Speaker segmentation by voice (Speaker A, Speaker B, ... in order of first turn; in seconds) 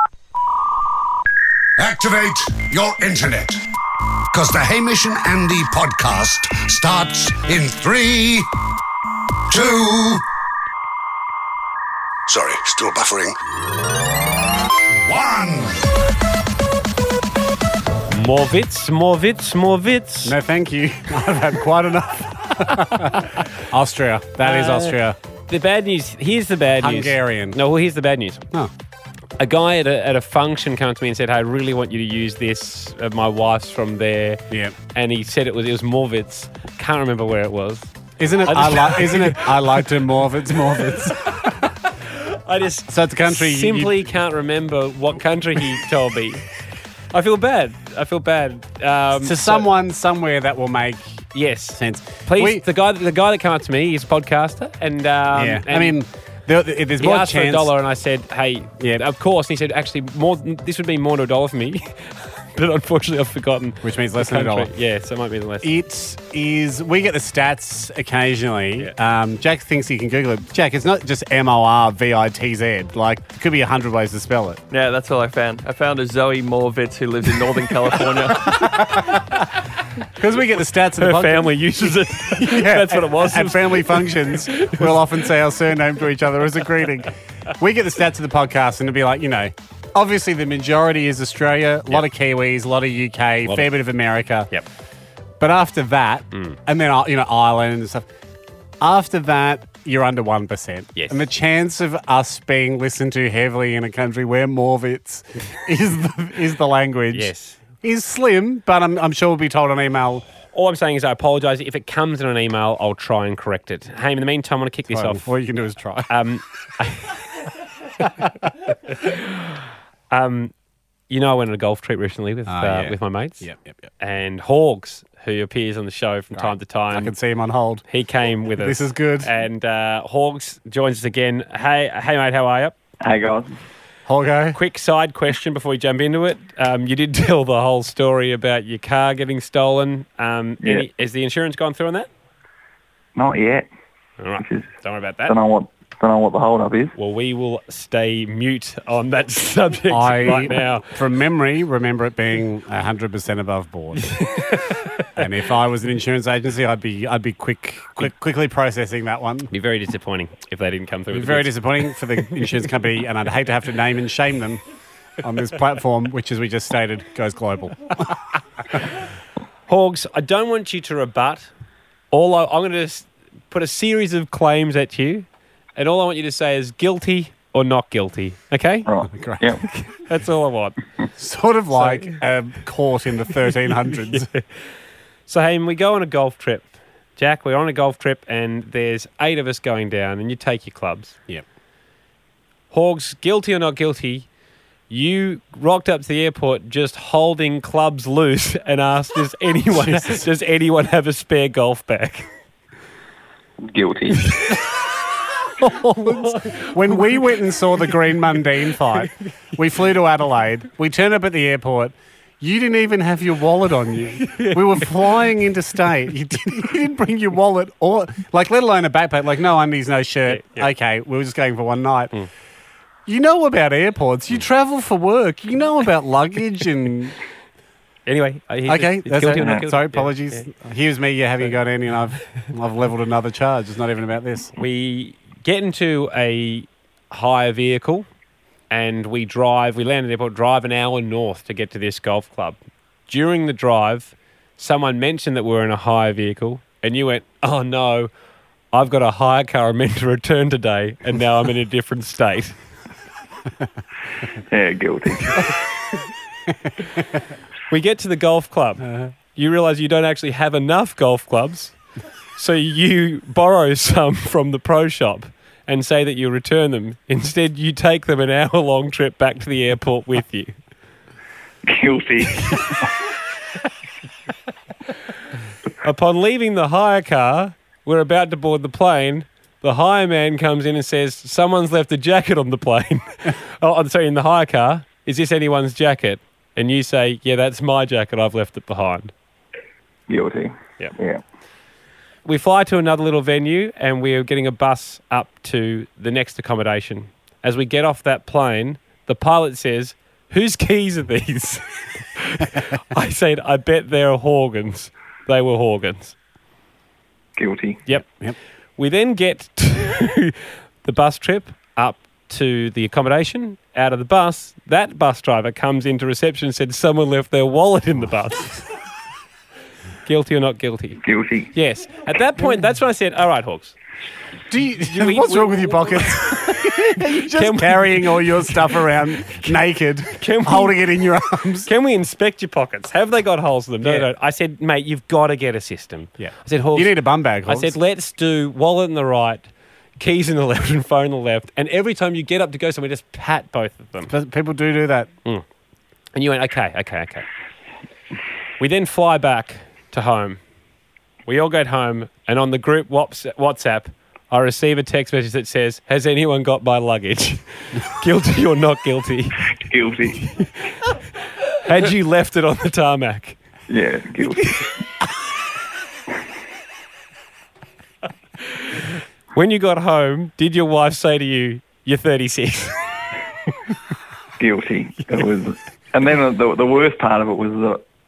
Speaker A: 1.8-3.6, 4.3-8.5, 9.5-10.2, 12.3-13.4, 15.0-15.9
Speaker B: 18.1-20.4, 24.4-25.0, 25.5-28.4, 29.4-39.6, 42.1-46.5, 47.1-49.7, 51.4-56.0, 57.0-65.7, 81.0-85.0, 93.5-93.7, 101.0-101.2, 107.1-107.6, 110.5-115.3, 116.1-117.2, 118.9-119.5, 120.1-120.5, 121.1-123.5, 124.0-127.1, 127.9-132.8, 134.6-142.1, 144.2-145.3, 147.0-150.9, 154.0-154.9, 159.5-161.6, 169.7-171.5, 172.1-178.9, 179.7-180.8, 181.8-182.2, 185.3-191.2, 192.7-194.3, 194.9-202.3, 206.1-207.0, 214.2-214.9, 220.3-220.7, 228.1-230.5, 234.6-238.1, 238.7-248.1, 248.7-252.6, 257.7-261.8, 262.4-270.6, 275.8-289.1, 292.2-306.2, 308.8-318.7, 320.1-321.0, 321.5-323.8, 324.9-329.6, 330.2-330.8, 331.7-344.1, 346.1-347.3, 348.6-350.4, 351.3-359.5, 361.6-363.4, 369.3-372.9
Speaker C: 20.2-25.2, 26.8-27.6, 34.5-34.8, 38.2-41.6, 42.9-44.1, 49.2-52.6, 55.3-57.7, 63.8-64.7, 65.6-74.6, 78.5-79.2, 80.2-94.5, 95.4-98.0, 98.8-110.3, 114.9-116.1, 122.5-123.8, 126.4-127.8, 128.6-129.3, 134.1-134.6, 149.9-154.1, 155.2-159.5, 161.1-164.6, 165.2-168.2, 179.1-179.5, 181.2-184.3, 199.7-200.3, 205.6-222.2, 223.1-227.2, 228.7-234.5, 324.5-331.7, 333.8-334.1, 336.2-337.8, 344.1-345.1
Speaker D: 74.7-78.7
Speaker E: 133.0-133.5, 140.6-140.9, 143.2-143.7, 144.4-144.7, 145.2-146.9, 178.9-179.6, 203.6-204.4, 229.3-229.7, 254.5-255.5, 271.6-272.9, 290.1-291.2, 307.4-307.8, 321.0-321.5, 359.5-360.2, 363.7-364.7, 374.4-377.8